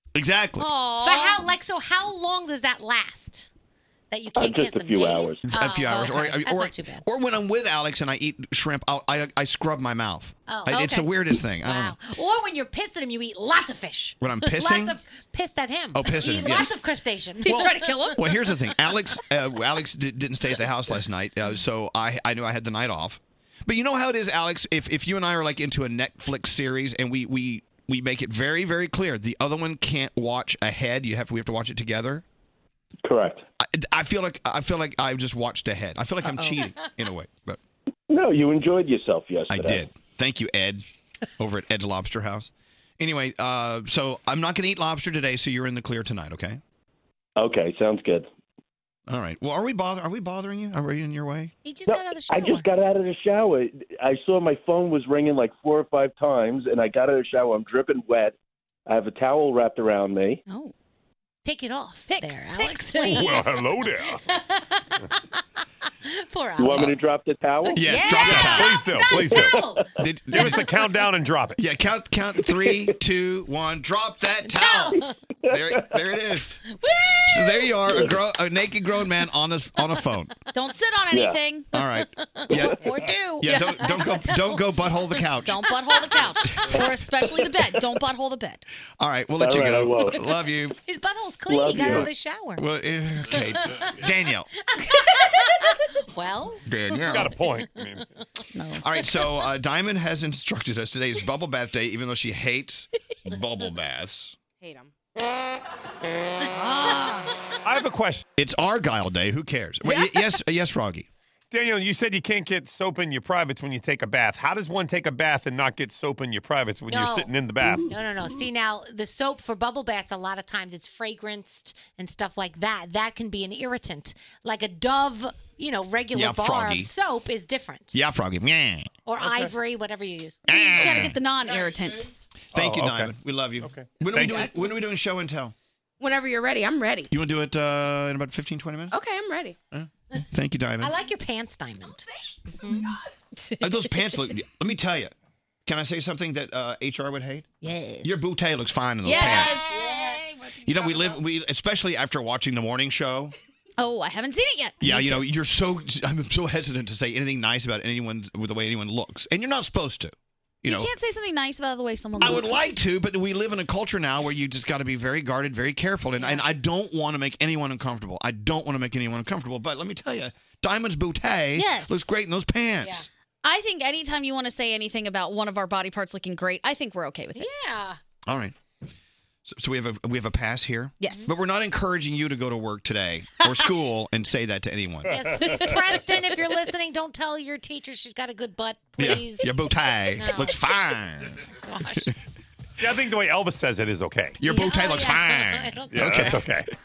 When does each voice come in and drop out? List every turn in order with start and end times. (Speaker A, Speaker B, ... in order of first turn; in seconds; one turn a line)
Speaker A: 0.1-0.7
Speaker B: 0.8-1.4
Speaker C: 1.0-3.5
Speaker C: 4.1-7.0
Speaker D: 4.3-5.4
Speaker A: 5.4-11.9
Speaker C: 10.5-18.2
Speaker A: 14.2-15.0
Speaker A: 15.9-16.7
Speaker B: 17.4-18.2
Speaker A: 17.5-32.2
Speaker D: 33.0-33.4
Speaker A: 33.6-37.6
Speaker B: 36.2-36.7
Speaker D: 38.1-39.8
Speaker A: 39.5-40.8
Speaker A: 41.4-46.6
Speaker D: 47.4-48.2
Speaker A: 49.1-51.5
Speaker C: 51.6-52.7
Speaker D: 51.9-58.3
Speaker D: 58.9-60.4
Speaker B: 60.5-60.7
Speaker C: 61.4-65.0
Speaker B: 62.1-63.4
Speaker E: 63.0-64.2
Speaker C: 66.0-66.9
Speaker D: 66.6-67.9
Speaker A: 67.7-68.8
Speaker B: 67.8-68.7
Speaker C: 68.0-69.8
Speaker E: 68.2-69.7
Speaker D: 69.3-69.7
Speaker A: 70.0-70.7
Speaker E: 70.3-71.6
Speaker C: 70.4-70.6
Speaker A: 71.5-76.6
Speaker C: 74.5-75.1
Speaker D: 75.5-75.8
Speaker C: 76.8-77.7
Speaker A: 77.2-80.3
Speaker D: 77.9-78.1
Speaker B: 80.5-81.7
Speaker D: 81.1-81.4
Speaker A: 81.7-85.6
Speaker C: 82.4-84.9
Speaker B: 85.4-88.6
Speaker A: 89.0-90.8
Speaker D: 89.4-90.2
Speaker C: 90.8-92.7
Speaker D: 91.5-92.1
Speaker A: 92.6-94.5
Speaker C: 94.7-97.2
Speaker A: 96.7-97.3
Speaker E: 97.0-98.0
Speaker B: 98.5-98.8
Speaker A: 98.8-104.3
Speaker F: 104.6-104.9
Speaker B: 106.5-107.3
Speaker E: 107.6-108.2
Speaker A: 108.4-111.1
Speaker B: 109.8-110.2
Speaker E: 111.5-117.9
Speaker C: 116.9-128.0
Speaker A: 126.1-126.9
Speaker A: 127.9-128.9
Speaker C: 129.1-130.4
Speaker A: 130.5-131.2
Speaker B: 130.5-132.2
Speaker A: 132.5-135.5
Speaker E: 132.5-133.1
Speaker E: 133.7-134.5
Speaker F: 136.0-137.1
Speaker A: 137.1-138.9
Speaker F: 138.9-139.6
Speaker A: 139.7-140.9
Speaker C: 140.8-142.0
Speaker C: 142.6-142.9
Speaker A: 143.6-145.1
Speaker A: 145.7-147.5
Speaker B: 147.6-148.2
Speaker A: 148.0-149.6
Speaker B: 149.0-151.0
Speaker A: 150.6-153.3
Speaker B: 153.8-155.2
Speaker A: 154.8-160.1
Speaker A: 160.6-160.9
Speaker B: 160.6-162.8
Speaker A: 162.2-173.1
Speaker B: 171.6-172.1
Speaker C: 172.8-173.1
Speaker B: 173.4-177.5
Speaker C: 177.3-178.0
Speaker A: 178.3-178.6
Speaker A: 179.4-185.6
Speaker B: 181.0-181.3
Speaker C: 185.1-189.6
Speaker A: 189.0-191.4
Speaker C: 190.2-190.6
Speaker C: 191.6-192.1
Speaker E: 192.8-194.4
Speaker A: 194.4-196.6
Speaker C: 194.4-196.4
Speaker E: 195.9-196.7